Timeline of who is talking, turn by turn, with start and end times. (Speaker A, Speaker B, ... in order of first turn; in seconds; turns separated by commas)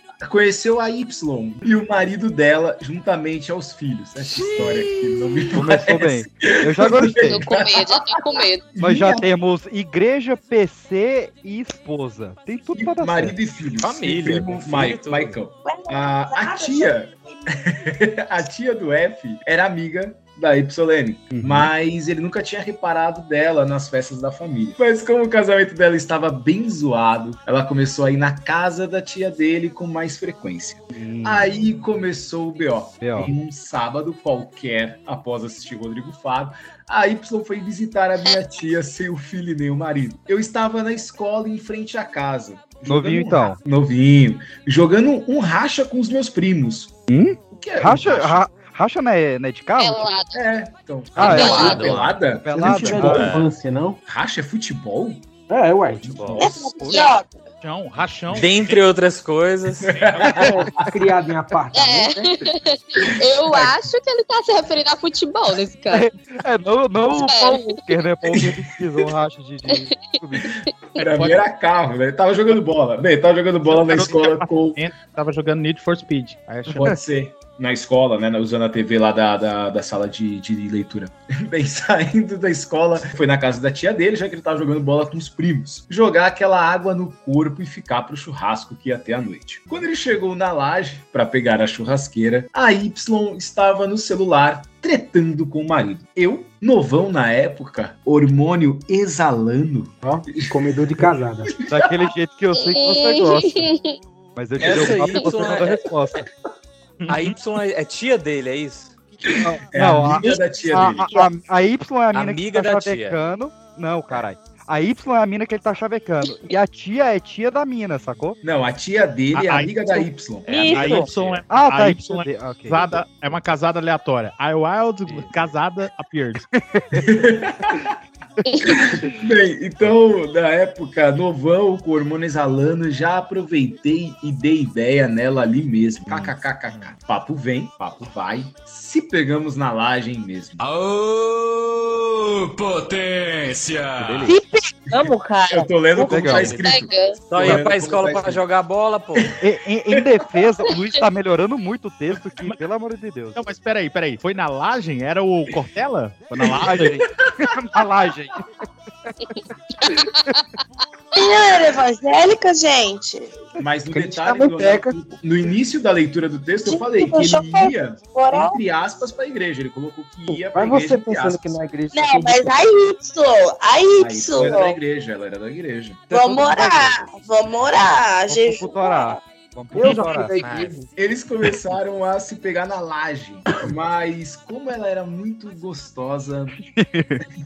Speaker A: 0.2-7.8, Speaker B: 5.5-7.5, Speaker C: 7.2-8.7, Speaker A: 8.7-9.2, Speaker B: 8.8-13.4, Speaker A: 12.7-46.9, Speaker D: 13.8-15.4, Speaker E: 15.6-17.9, Speaker B: 21.3-21.7, Speaker B: 30.9-31.5, Speaker B: 33.0-33.3, Speaker B: 42.9-43.6, Speaker B: 47.1-50.1, Speaker A: 47.5-48.5, Speaker C: 49.8-50.3, Speaker A: 50.4-53.1, Speaker B: 51.1-53.4, Speaker D: 51.2-52.2, Speaker C: 51.4-51.7, Speaker F: 52.5-54.0, Speaker D: 52.8-53.5, Speaker A: 54.1-55.3, Speaker F: 55.5-56.1, Speaker A: 56.0-56.9, Speaker D: 56.1-56.5, Speaker E: 56.4-57.4, Speaker G: 57.6-58.5, Speaker D: 58.3-60.5, Speaker A: 59.9-60.8, Speaker F: 60.3-62.4, Speaker C: 61.7-66.0, Speaker B: 65.9-70.5, Speaker C: 67.1-67.7, Speaker A: 68.3-68.6, Speaker C: 70.4-71.1, Speaker A: 71.0-74.8, Speaker G: 71.1-71.4, Speaker G: 73.7-76.9, Speaker A: 76.7-100.5, Speaker F: 100.0-101.5, Speaker A: 101.6-101.9, Speaker B: 101.7-103.7, Speaker C: 102.5-104.0, Speaker B: 104.3-106.3, Speaker D: 104.6-105.8, Speaker A: 104.6-104.9, Speaker G: 107.0-107.3, Speaker D: 107.1-108.9, Speaker A: 109.2-111.2, Speaker B: 109.4-118.4, Speaker D: 112.1-113.2, Speaker A: 118.4-121.0, Speaker G: 119.3-120.0, Speaker H: 120.5-121.1, Speaker D: 120.5-121.4, Speaker G: 120.6-126.4, Speaker B: 121.5-122.9, Speaker A: 127.0-127.7, Speaker A: 129.1-140.6, Speaker B: 136.1-136.3, Speaker I: 140.6-144.2, Speaker B: 144.0-144.4, Speaker H: 144.3-146.4, Speaker A: 144.9-148.4, Speaker B: 146.1-146.6, Speaker D: 146.3-146.7, Speaker C: 146.6-147.2, Speaker D: 147.3-149.3, Speaker B: 149.4-153.4, Speaker G: 153.3-157.0, Speaker B: 156.5-158.4, Speaker C: 159.8-160.1, Speaker E: 161.2-163.3, Speaker A: 163.6-171.4, Speaker F: 163.9-164.9, Speaker E: 166.7-168.6, Speaker F: 170.5-170.8, Speaker F: 171.4-171.9, Speaker E: 171.9-174.6, Speaker A: 174.0-176.1, Speaker H: 174.4-174.8, Speaker B: 176.1-177.0, Speaker E: 176.1-179.2, Speaker B: 178.3-180.4, Speaker F: 179.7-180.7, Speaker D: 180.4-180.8, Speaker A: 180.9-186.5, Speaker B: 186.6-187.2